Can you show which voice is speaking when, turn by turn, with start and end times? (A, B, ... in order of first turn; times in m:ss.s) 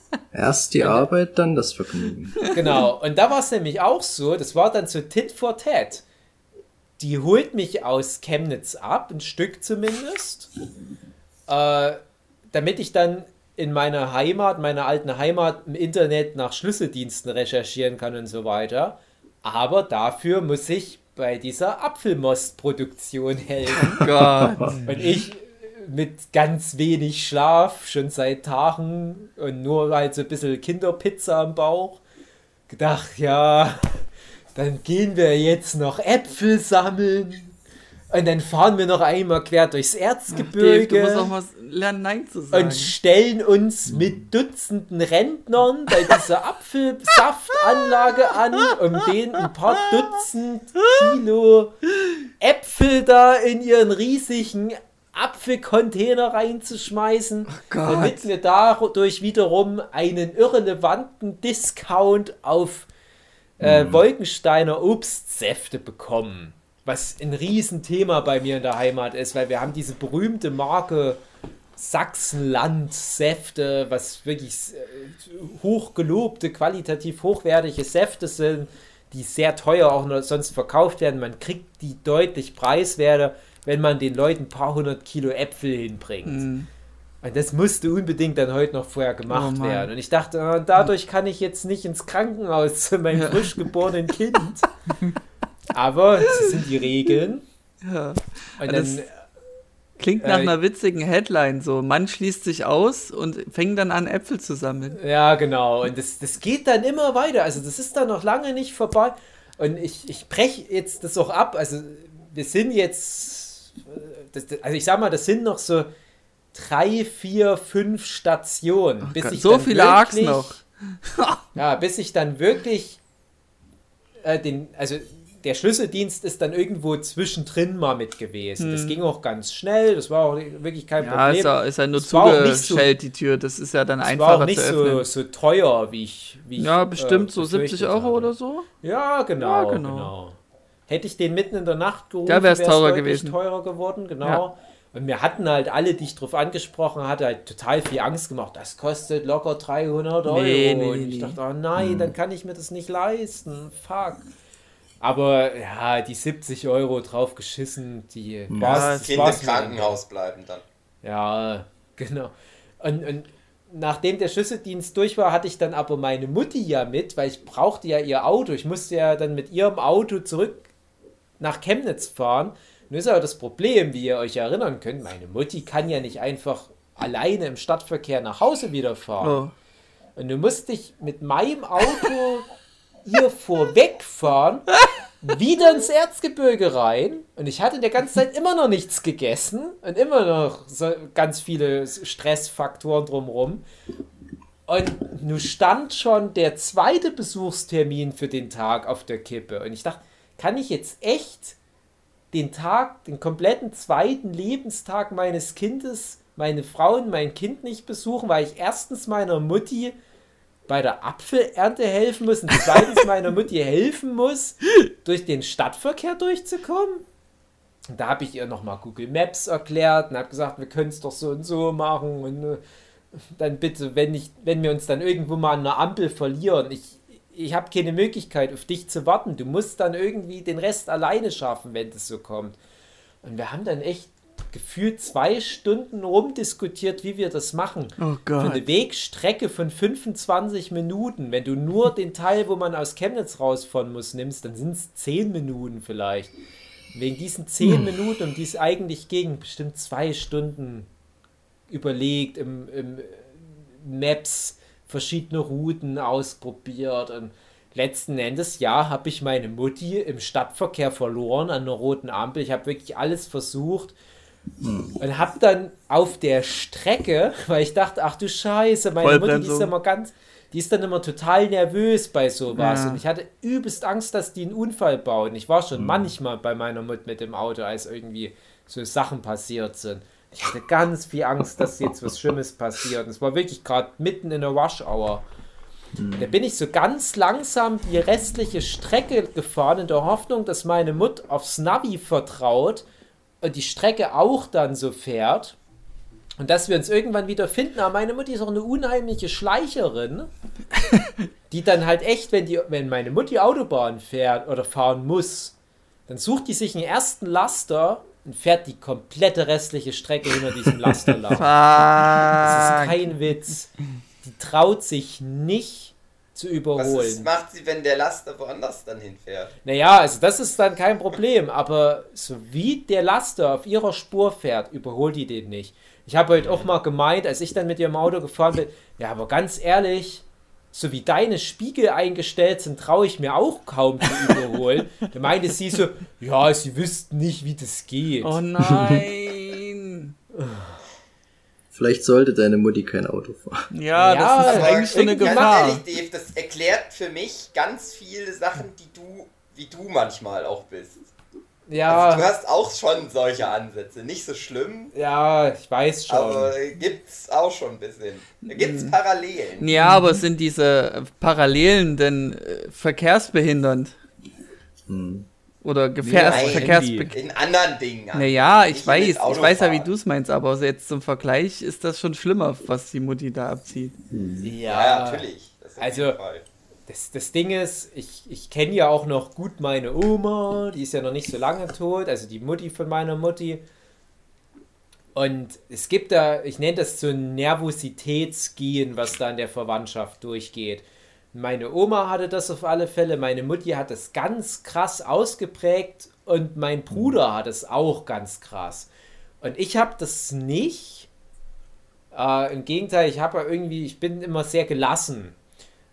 0:00.3-0:02.5 A
0:00.8-0:01.1 B
0:02.5-0:06.0 B
0:07.0-0:10.5 B
0:11.5-0:12.0 B
0:12.5-0:24.0 B
0:23.9-0:24.8 C
0:24.0-0:24.7 A
0:24.8-0:32.0 B
0:32.7-0:37.6 B
0:38.1-0:41.3 B
0:40.3-0:42.9 C
0:42.5-0:51.8 B
0:43.9-0:44.2 A
0:52.4-1:02.9 B
0:57.5-0:58.2 C
1:03.6-1:04.0 A
1:03.6-1:11.2 B
1:11.8-1:26.5 B
1:26.3-1:26.7 C
1:27.2-1:34.7 B
1:29.3-1:29.9 C
1:33.1-1:33.5 C
1:35.7-1:37.4 B
1:37.8-1:39.0 C
1:38.6-1:39.1 B
1:40.0-1:45.0 C
1:40.2-1:40.6 B
1:45.0-1:55.9 B
1:56.5-2:00.6 B
1:59.0-2:01.4 C
2:01.6-2:03.0 B
2:04.2-2:12.9 B
2:08.6-2:09.0 C
2:11.0-2:15.1 C
2:14.0-2:34.2 B
2:16.6-2:18.7 C
2:19.4-2:20.1 C
2:22.3-2:23.4 C
2:30.3-2:31.4 C
2:31.8-2:32.1 A
2:35.0-2:40.0 B
2:38.5-2:38.8 A
2:38.6-2:39.3 C
2:39.0-2:40.6 D
2:41.0-2:50.7 B
2:51.4-2:59.4 B
2:59.2-2:59.5 C
3:00.2-3:02.5 B
3:03.0-3:04.7 B
3:05.2-3:13.6 B
3:14.7-3:21.6 B
3:22.3-3:30.0 B
3:30.7-3:37.0 B
3:37.9-3:42.6 B
3:43.4-3:52.6 B
3:53.2-4:06.3 B
3:58.0-3:58.6 C
4:06.9-4:10.9 B
4:07.6-4:07.9 A
4:11.7-4:24.0 B
4:24.6-4:25.0 A
4:25.0-4:45.2 B
4:29.0-4:29.7 C
4:32.6-4:33.0 C
4:35.8-4:36.1 A
4:46.0-4:46.3 A
4:46.2-4:52.8 B
4:53.4-4:55.6 B
4:56.4-5:00.3 B
5:01.5-5:05.6 B
5:06.1-5:11.5 B
5:11.4-5:13.0 C
5:12.4-5:13.7 B
5:14.2-5:17.3 B
5:16.8-5:19.5 D
5:19.6-5:38.4 B
5:38.2-5:40.1 C
5:40.4-5:40.7 B
5:41.7-5:43.7 A
5:43.7-5:45.8 C
5:44.0-5:45.8 B
5:44.4-5:51.1 D
5:51.7-5:52.3 B
5:51.9-5:54.9 D
5:54.9-5:56.6 B
5:56.1-5:59.7 D
5:58.6-5:59.0 C
5:59.6-6:03.9 C
5:59.7-6:00.2 B
6:04.9-6:05.3 A
6:05.6-6:07.2 C
6:06.0-6:07.2 B
6:06.2-6:09.9 D
6:08.1-6:14.0 C
6:14.1-6:14.5 A
6:14.4-6:15.3 B
6:14.6-6:16.4 D
6:15.8-6:16.2 B
6:16.9-6:23.6 B
6:25.2-6:38.9 B
6:36.9-6:37.2 A
6:39.4-6:41.1 B
6:42.1-6:45.4 B